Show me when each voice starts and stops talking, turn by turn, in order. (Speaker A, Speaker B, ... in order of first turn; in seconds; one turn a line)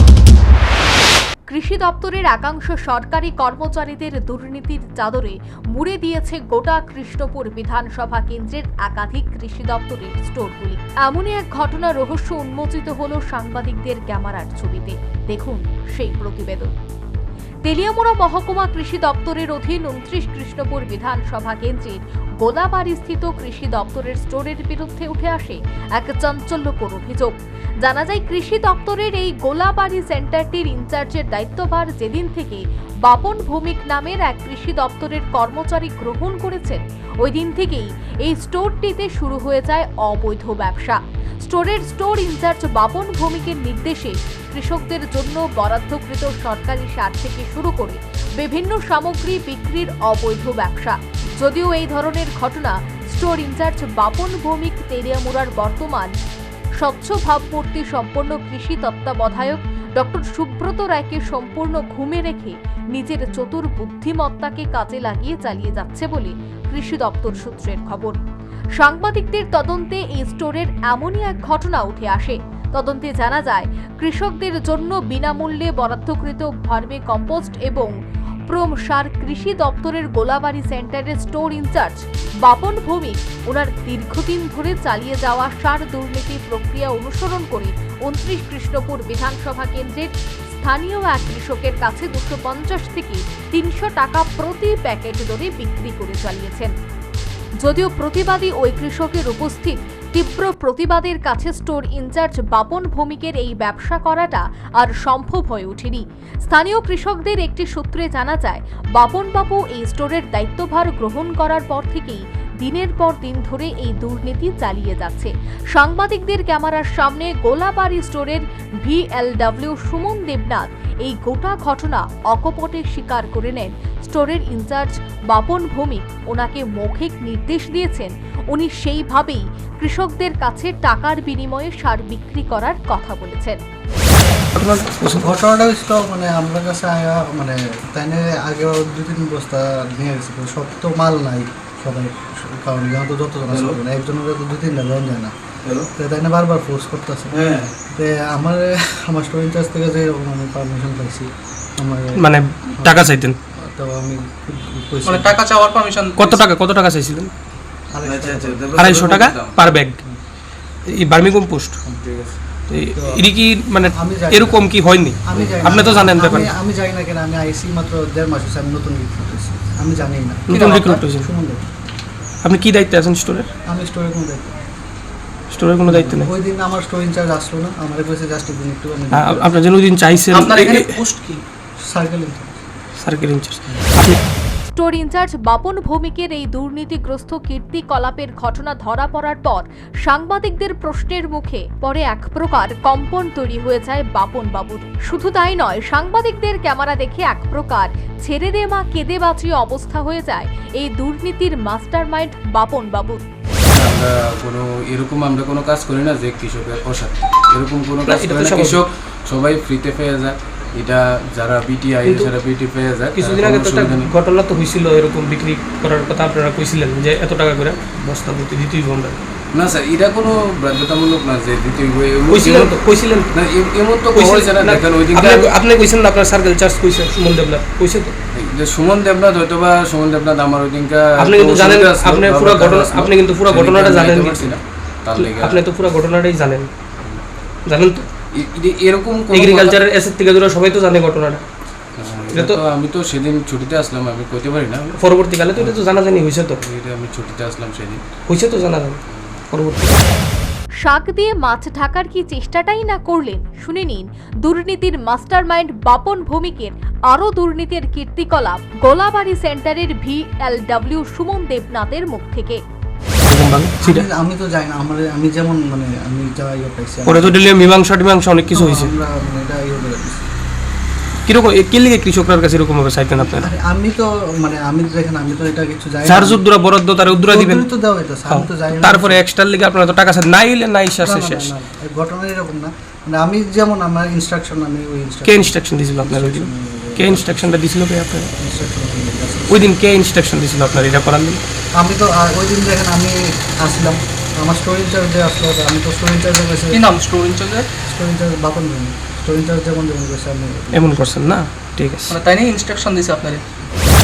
Speaker A: 1.5-16.7
Speaker A: 17.6-56.1
Speaker A: 56.8-68.2
Speaker A: 68.8-77.9
Speaker A: 78.5-96.7
Speaker A: 97.6-133.6
Speaker B: 134.5-135.3
Speaker C: 135.1-145.3
Speaker D: 143.5-143.8
Speaker C: 145.9-155.4
Speaker D: 147.3-147.7
Speaker B: 152.2-153.4
Speaker E: 155.0-156.4
Speaker B: 156.2-157.3
Speaker C: 157.9-158.7
Speaker D: 158.0-159.8
Speaker B: 158.7-160.0
Speaker B: 160.9-161.8
Speaker D: 162.0-162.3
Speaker B: 162.7-166.5
Speaker C: 162.9-163.2
Speaker C: 163.9-171.6
Speaker B: 170.5-171.3
Speaker E: 170.5-171.0
Speaker B: 172.4-173.5
Speaker C: 173.7-174.7
Speaker B: 175.5-176.3
Speaker C: 175.8-179.5
Speaker B: 179.1-181.0
Speaker E: 180.3-181.4
Speaker C: 181.8-182.6
Speaker B: 183.0-184.2
Speaker A: 184.7-203.2
Speaker D: 203.7-214.1
Speaker B: 208.0-208.8
Speaker B: 212.0-212.3
Speaker B: 213.1-219.2
Speaker D: 219.5-222.8
Speaker B: 222.3-223.3
Speaker D: 223.3-225.5
Speaker B: 224.1-228.1
Speaker D: 228.3-235.6
Speaker B: 231.2-234.6
Speaker B: 235.1-236.7
Speaker B: 237.7-238.0
Speaker D: 238.3-239.8
Speaker B: 239.3-241.4
Speaker D: 241.9-245.9
Speaker B: 242.3-242.6
Speaker B: 244.9-246.6
Speaker D: 246.6-248.0
Speaker B: 248.2-249.0
Speaker B: 249.5-250.1
Speaker A: 250.8-262.6
Speaker B: 263.2-264.1
Speaker C: 263.8-267.4
Speaker B: 267.1-268.9
Speaker C: 268.5-270.2
Speaker B: 271.2-273.5
Speaker C: 273.2-276.4
Speaker B: 276.0-277.7
Speaker C: 277.1-279.2
Speaker B: 278.3-281.5
Speaker C: 281.0-287.5
Speaker B: 285.2-288.3
Speaker C: 288.4-289.7
Speaker B: 289.5-291.4
Speaker C: 291.8-296.8
Speaker E: 296.7-297.7
Speaker C: 297.8-301.2
Speaker B: 300.7-302.1
Speaker E: 302.1-303.4